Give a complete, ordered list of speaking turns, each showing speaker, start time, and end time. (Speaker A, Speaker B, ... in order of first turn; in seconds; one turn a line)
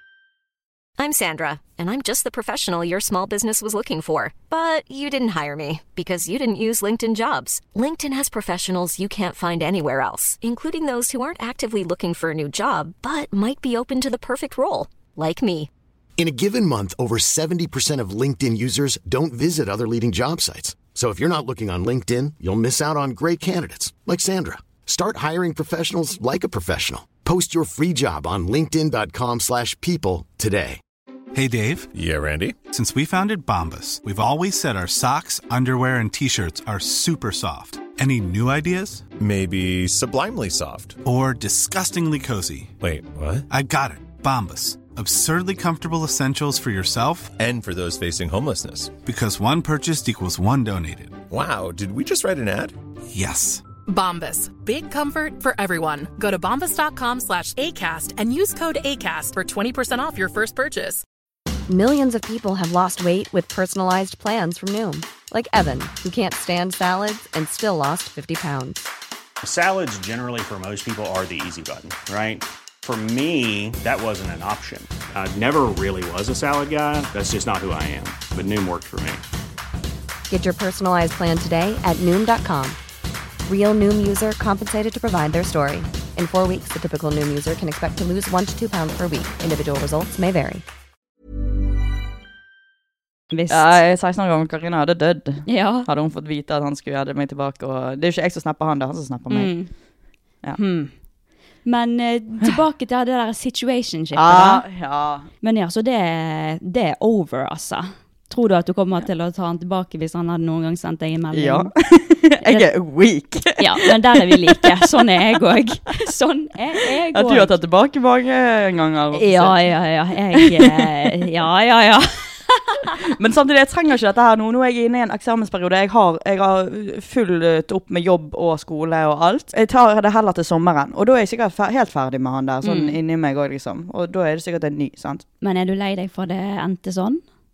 Speaker A: 1.0-15.7
Speaker B: 16.2-30.8
Speaker C: 31.3-31.9
Speaker D: 31.9-32.6
Speaker C: 32.7-39.1
Speaker D: 39.2-41.0
Speaker C: 41.0-42.7
Speaker D: 42.8-43.5
Speaker C: 43.5-47.3
Speaker D: 47.4-49.0
Speaker C: 49.0-51.2
Speaker D: 51.3-52.8
Speaker C: 53.1-53.6
Speaker E: 53.9-61.0
Speaker F: 61.7-68.9
Speaker G: 69.4-79.2
Speaker F: 80.3-82.8
Speaker F: 83.5-90.6
Speaker H: 93.3-93.8
Speaker I: 93.5-99.5
Speaker H: 95.5-95.9
Speaker H: 99.3-99.7
Speaker H: 100.6-100.9
Speaker H: 101.7-104.7
Speaker I: 104.1-105.3
Speaker H: 105.4-111.7
Speaker I: 111.3-115.0
Speaker H: 112.4-112.7
Speaker H: 113.6-117.5
Speaker I: 117.1-119.6
Speaker H: 119.1-123.0
Speaker I: 120.3-121.1
Speaker I: 123.0-135.2
Speaker H: 132.6-133.0
Speaker H: 135.4-137.2